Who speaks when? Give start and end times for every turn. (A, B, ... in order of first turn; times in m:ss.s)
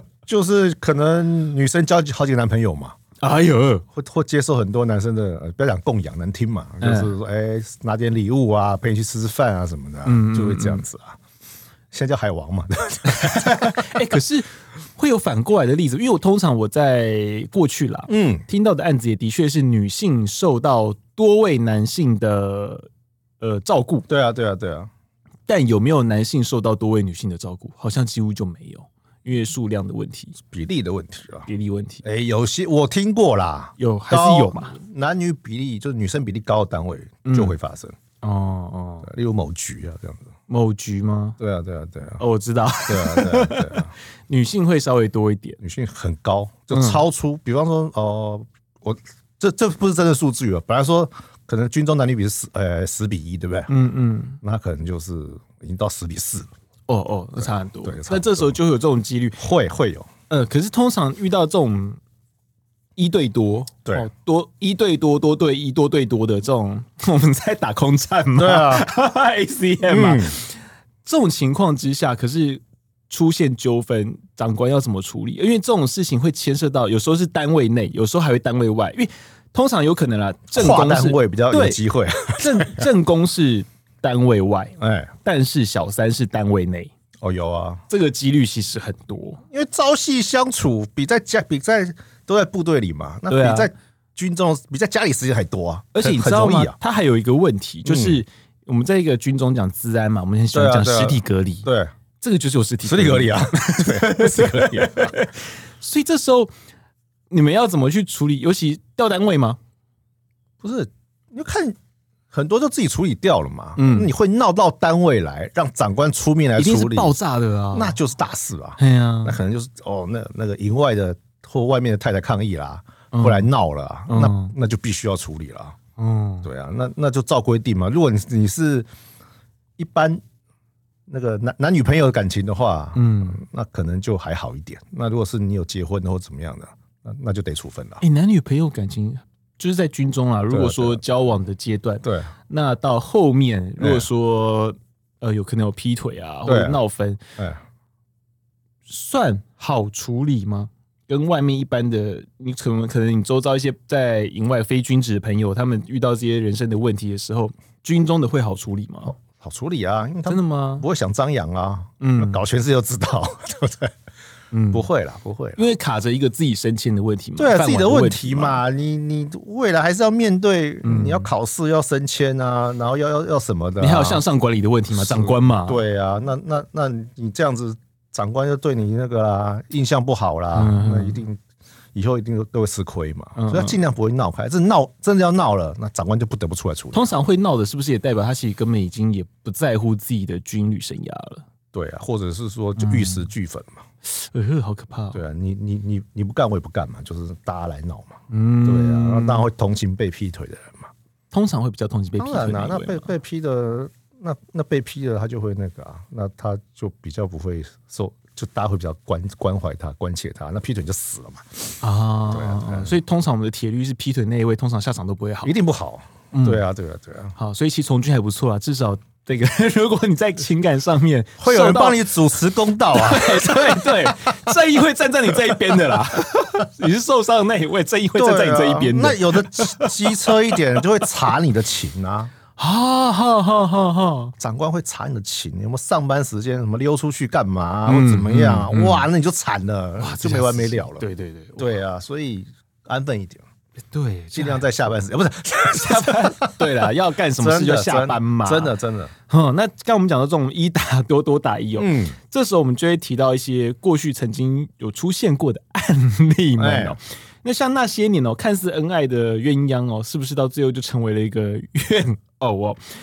0:00.3-0:03.0 A
0:03.2-0:03.8 B
0:03.9-0:11.2 A
0:06.8-0:07.1 B
0:10.0-0:10.8 B
0:11.9-0:13.9 A
0:13.1-0:22.9 B
0:18.1-0:18.4 A
0:23.4-0:24.1 B
0:24.1-0:24.9 A
0:25.5-0:30.4 B
0:30.4-0:31.5 A
0:31.5-0:32.0 B
0:32.0-0:38.0 A
0:33.8-0:34.8 B
0:37.2-0:37.6 B
0:38.2-0:39.1 B
0:39.0-0:40.3 A
0:40.5-0:41.4 B
0:41.4-0:42.2 A
0:42.2-0:45.6 B
0:42.9-0:43.9 A
0:45.6-0:53.7 A
0:46.7-0:47.0 B
0:53.7-0:54.4 B
0:54.4-0:56.5 A
0:56.9-0:59.4 B
0:57.4-0:58.6 A
0:59.4-1:00.1 A
1:00.3-1:02.0 B
1:03.0-1:21.8 B
1:08.4-1:08.9 A
1:09.9-1:10.4 A
1:20.6-1:22.9 A
1:22.4-1:26.9 B
1:24.8-1:25.1 A
1:27.2-1:27.8 A
1:27.9-1:29.4 B
1:29.5-1:36.8 A
1:33.3-1:33.7 B
1:35.9-1:41.7 B
1:37.8-1:38.2 A
1:40.5-1:41.9 A
1:42.2-1:46.5 B
1:42.8-1:45.2 A
1:47.3-1:49.6 B
1:50.6-1:51.8 A
1:52.3-1:57.1 A
1:53.8-1:54.1 B
1:56.6-1:58.0 B
1:57.7-2:05.8 A
1:58.8-1:59.4 B
2:03.1-2:03.5 B
2:04.1-2:04.5 B
2:06.0-2:06.5 B
2:06.4-2:08.9 A
2:09.8-2:10.2 A
2:11.1-2:18.0 A
2:13.0-2:13.4 B
2:18.0-2:27.2 B
2:20.5-2:21.0 A
2:22.0-2:22.3 A
2:23.8-2:24.1 A
2:26.5-2:26.8 A
2:28.9-2:39.2 B
2:39.1-2:43.9 A
2:40.3-2:40.8 B
2:42.0-2:42.4 B
2:44.5-2:44.9 B
2:44.7-2:45.6 A
2:45.6-2:48.6 B
2:47.4-2:54.2 A
2:50.8-2:51.3 B
2:53.8-2:55.8 B
2:54.9-3:01.4 A
3:00.5-3:01.2 B
3:01.9-3:07.0 A
3:03.4-3:03.8 B
3:06.9-3:11.4 B
3:11.7-3:13.8 A
3:12.8-3:13.3 B
3:14.0-3:15.2 B
3:15.1-3:20.9 A
3:18.3-3:19.5 B
3:21.3-3:23.1 B
3:22.2-3:31.8 A
3:31.8-3:35.6 B
3:32.3-3:33.0 A
3:35.4-3:37.3 A
3:36.3-3:36.6 B
3:37.4-3:42.1 B
3:41.4-3:44.4 A
3:42.9-3:50.8 B
3:45.3-3:46.2 A
3:48.2-3:52.3 A
3:52.6-3:54.3 B
3:54.4-4:03.4 A
3:57.9-3:59.1 B
4:00.0-4:01.7 B
4:03.9-4:04.6 B
4:04.3-4:09.1 A
4:05.7-4:08.7 B
4:09.3-4:22.8 B
4:11.8-4:12.2 A
4:16.6-4:17.0 A